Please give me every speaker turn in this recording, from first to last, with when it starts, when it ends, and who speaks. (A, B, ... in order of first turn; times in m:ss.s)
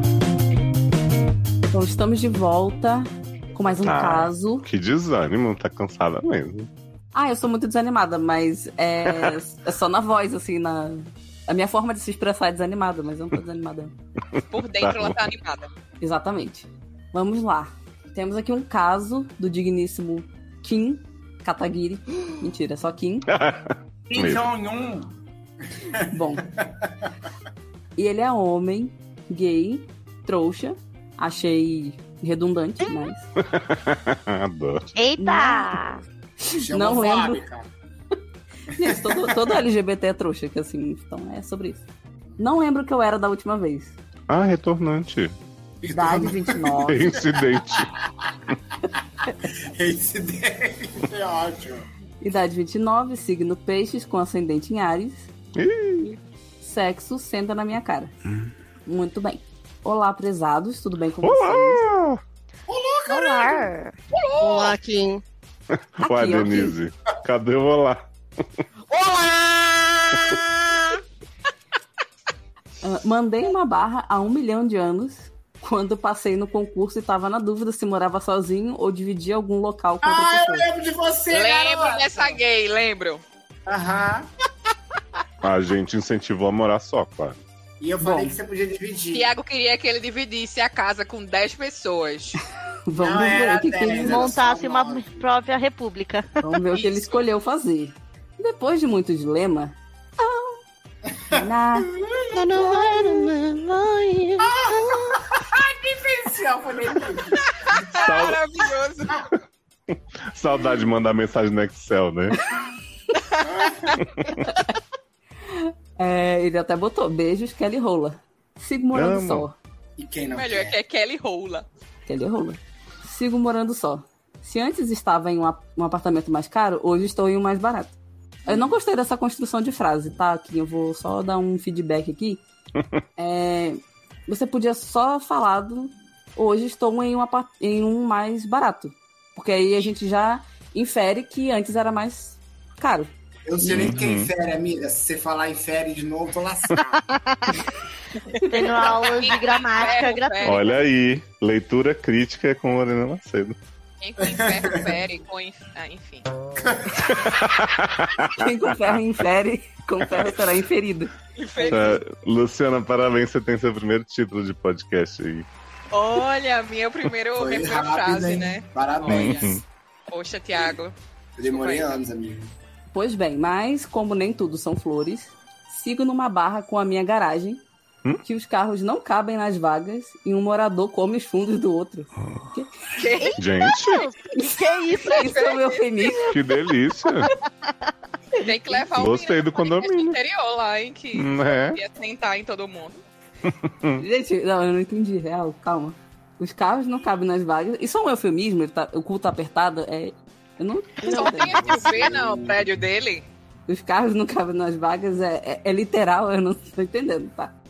0:01.7-0:04.7 A
0:03.8-0:06.7 B
0:07.1-0:13.9 A
0:09.1-0:09.4 B
0:14.5-0:15.7 C
0:14.8-0:15.2 B
0:16.0-0:23.3 A
0:23.3-0:24.4 B
0:24.1-0:25.1 D
0:25.9-0:26.5 A
0:25.9-0:27.1 D
0:28.0-0:33.3 A
0:33.4-0:34.8 B
0:34.9-0:36.0 E
0:35.2-0:35.8 A
0:36.5-0:37.4 A
0:36.6-0:37.7 D
0:38.7-0:41.9 A
0:38.8-0:39.5 D
0:42.4-0:43.9 A
0:44.3-0:45.4 B
0:45.8-0:48.3 D
0:45.9-0:47.1 A
0:46.9-0:47.9 B
0:49.8-0:51.9 D
0:52.2-0:55.3 A
0:55.6-0:56.1 B
0:56.6-0:58.1 A
0:58.9-1:01.8 A
1:01.2-1:02.2 B
1:02.7-1:03.7 D
1:03.1-1:03.9 E
1:04.3-1:05.2 F
1:04.4-1:04.7 C
1:05.7-1:08.1 B
1:06.0-1:06.8 A
1:08.9-1:11.0 F
1:12.8-1:20.7 A
1:20.0-1:22.4 D
1:21.3-1:23.2 C
1:23.7-1:24.3 D
1:25.4-1:27.4 B
1:27.8-1:29.3 D
1:28.0-1:28.4 A
1:29.1-1:32.4 C
1:32.9-1:34.4 A
1:33.0-1:35.2 D
1:34.0-1:36.3 E
1:36.4-1:40.6 A
1:36.7-1:37.2 C
1:41.3-1:42.4 D
1:41.3-1:41.9 A
1:42.3-1:45.1 F
1:44.4-1:47.4 D
1:46.9-1:47.2 A
1:47.4-1:49.2 C
1:47.9-1:48.4 B
1:50.3-1:52.4 B
1:53.2-1:54.0 C
1:53.4-1:54.0 D
1:55.5-1:59.6 A
1:58.9-1:59.5 B
2:00.0-2:00.8 D
2:00.3-2:01.7 C
2:02.1-2:12.4 A
2:13.2-2:23.1 A
2:23.5-2:27.0 D
2:23.6-2:24.3 B
2:27.0-2:27.7 E
2:28.4-2:30.8 E
2:28.6-2:30.6 C
2:30.4-2:33.6 B
2:34.0-2:36.3 C
2:34.3-2:34.8 D
2:36.6-2:37.1 D
2:37.1-2:39.0 B
2:38.4-2:41.8 A
2:41.4-2:42.0 C
2:41.7-2:45.5 B
2:45.9-2:52.0 C
2:47.4-2:49.6 D
2:49.1-2:49.6 B
2:51.4-2:52.5 D
2:52.9-2:57.6 A
2:58.2-3:02.7 A
3:03.0-3:03.8 C
3:03.2-3:05.3 E
3:03.4-3:04.1 B
3:04.4-3:06.3 A
3:05.1-3:06.2 C
3:06.3-3:07.3 B
3:08.4-3:13.0 C
3:08.9-3:10.2 B
3:11.1-3:11.8 B
3:13.5-3:14.0 B
3:14.0-3:21.8 A
3:21.0-3:23.3 C
3:21.1-3:22.7 D
3:23.7-3:27.5 A